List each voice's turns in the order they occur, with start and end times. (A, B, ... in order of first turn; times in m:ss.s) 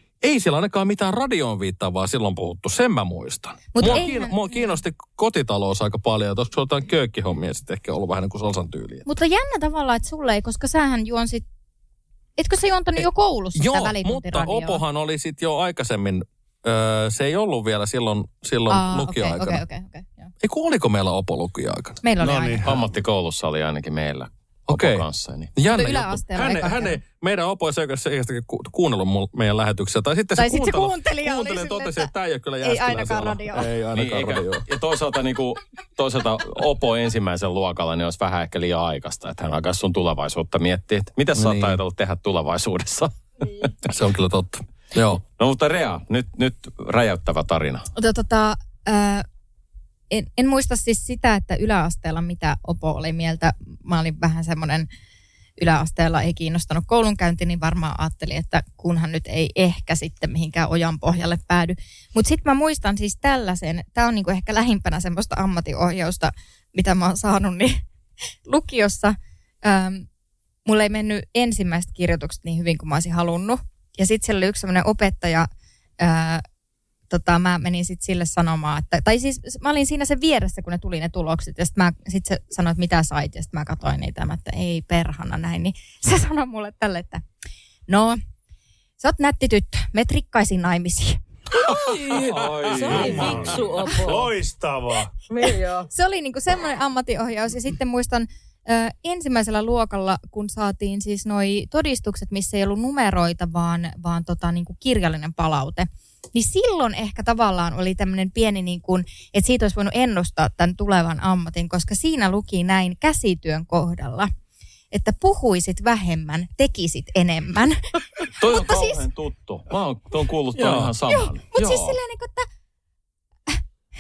0:00.2-0:09.0 A
0:03.7-0:04.8 B
0:09.0-0:11.4 B
0:12.4-0:14.8 B
0:13.5-0:19.6 A
0:18.7-0:20.3 B
0:20.4-0:22.0 A
0:22.0-0:22.6 B
0:22.2-0:22.8 C
0:22.6-0:25.5 D
0:24.7-0:34.6 A
0:25.7-0:27.0 B
0:30.4-0:32.1 B
0:32.6-0:33.7 B
0:33.9-0:43.7 D
0:41.4-0:41.8 A
0:43.9-0:45.2 A
0:45.4-0:47.9 D
0:48.0-0:49.2 B
0:50.1-0:54.9 B
0:55.6-1:07.8 B
1:08.4-1:10.0 B
1:10.6-1:15.5 B
1:16.0-1:16.4 B
1:17.1-1:27.2 B
1:27.9-1:28.2 B
1:29.0-1:31.2 B
1:31.6-1:34.3 E
1:32.1-1:33.6 D
1:32.9-1:35.1 C
1:35.3-1:35.9 E
1:35.9-1:54.3 B
1:54.9-1:59.0 B
1:58.4-2:02.0 D
2:00.6-2:00.9 A
2:01.1-2:02.5 B